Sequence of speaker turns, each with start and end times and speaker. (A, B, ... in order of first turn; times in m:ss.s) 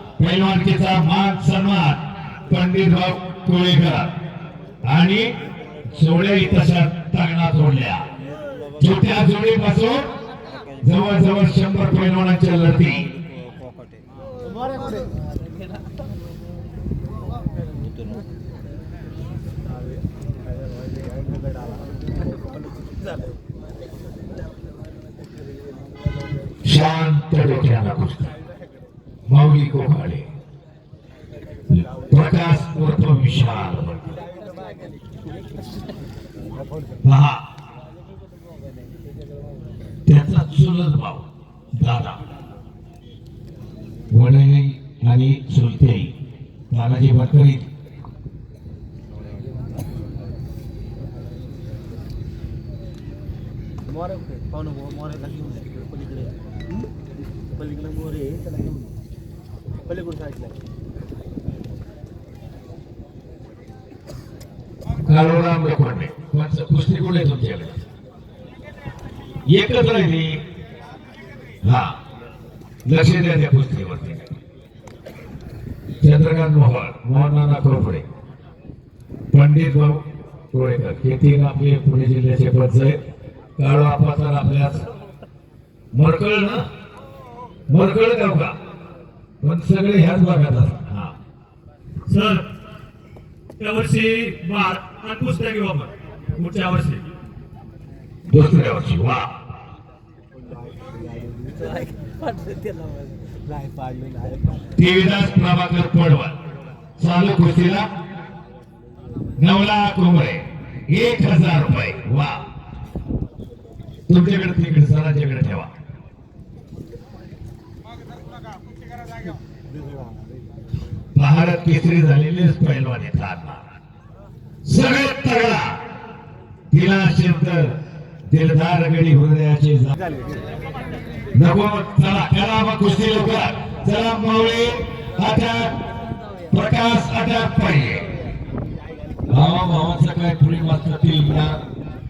0:00.2-0:04.1 A
0:04.8-0:05.3 A
0:05.9-0:08.0 A
0:08.8-0:10.1 A
0:10.8-0:13.1 A
0:13.1-0:14.0 B
0:26.6-0:28.3 A
0:29.3-0:30.3 A
0:31.7-0:34.1 A
0:37.0-0:37.4 A
0:40.0-0:42.2 A
0:44.1-0:46.1 A
0:46.7-0:47.7 A
0:53.9-0:56.3 B
0:57.5-0:58.8 B
0:59.8-1:00.6 B
1:05.0-1:07.8 A
1:09.5-1:10.3 A
1:11.6-1:11.9 A
1:12.8-1:14.2 A
1:16.0-1:18.0 A
1:19.3-1:23.0 A
1:23.6-1:24.9 A
1:25.9-1:26.6 A
1:27.7-1:28.6 A
1:29.4-1:31.1 A
1:33.6-1:37.0 C
1:33.6-1:35.2 A
1:38.3-1:39.3 A
1:40.7-1:44.6 B
1:44.8-1:46.4 A
1:47.0-1:47.9 A
1:49.4-1:52.4 A
1:54.1-1:55.7 A
2:01.1-2:03.6 A
2:04.6-2:05.8 A
2:06.7-2:07.7 A
2:08.3-2:09.9 A
2:10.1-2:10.4 B
2:11.3-2:15.8 A
2:16.5-2:18.1 A
2:19.3-2:21.6 A